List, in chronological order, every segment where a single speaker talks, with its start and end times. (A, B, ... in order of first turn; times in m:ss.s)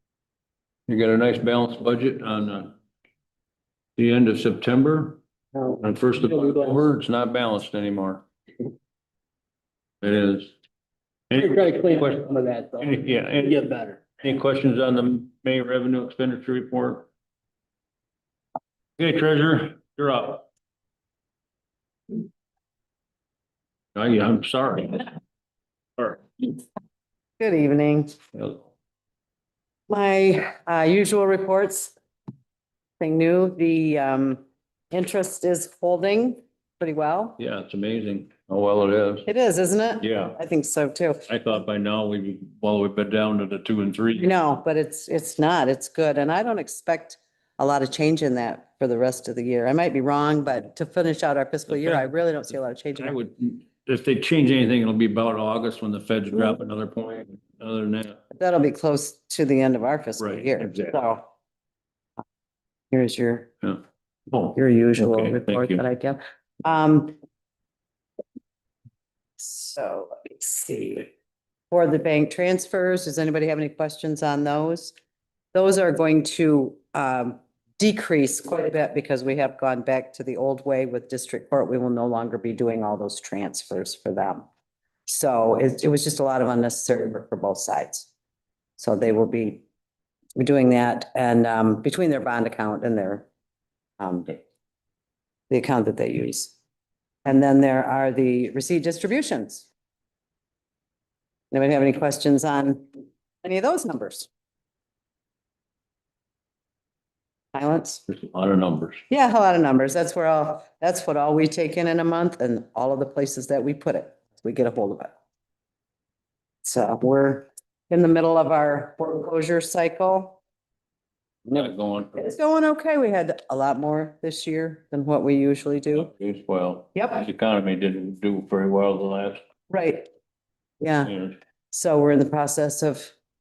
0:00.9-0:02.8 A
0:04.0-0:05.2 A
0:05.6-0:06.9 B
0:05.8-0:08.2 A
0:10.0-0:10.5 A
0:11.3-0:13.6 A
0:11.4-0:14.0 B
0:14.2-0:17.1 A
0:19.0-0:20.5 A
0:24.0-0:25.1 A
0:26.0-0:26.5 A
0:27.4-0:28.1 C
0:28.3-0:28.7 A
0:29.9-0:31.9 C
0:33.0-0:37.4 C
0:37.4-0:39.3 A
0:39.3-0:41.3 C
0:40.0-0:40.4 A
0:41.3-0:44.3 A
0:44.2-0:53.2 C
0:51.7-0:52.1 A
0:53.0-0:58.2 A
0:58.4-1:01.2 C
1:00.2-1:01.0 A
1:02.9-1:03.5 C
1:03.6-1:05.8 A
1:04.6-1:07.2 C
1:09.4-1:11.1 C
1:11.7-1:15.0 C
1:15.5-1:24.5 C
1:25.1-1:28.1 C
1:28.8-1:29.6 C
1:30.4-1:33.3 C
1:34.0-1:34.4 C
1:35.5-1:36.5 C
1:37.2-1:39.7 C
1:41.5-1:42.9 C
1:43.4-1:44.3 C
1:47.5-1:48.0 C
1:48.1-1:49.0 A
1:49.1-1:55.1 C
1:56.6-2:00.4 C
2:01.5-2:06.1 C
2:01.5-2:02.3 A
2:05.9-2:09.4 A
2:07.0-2:07.3 C
2:09.7-2:10.1 C
2:10.8-2:11.1 C
2:11.0-2:11.4 A
2:11.7-2:13.1 C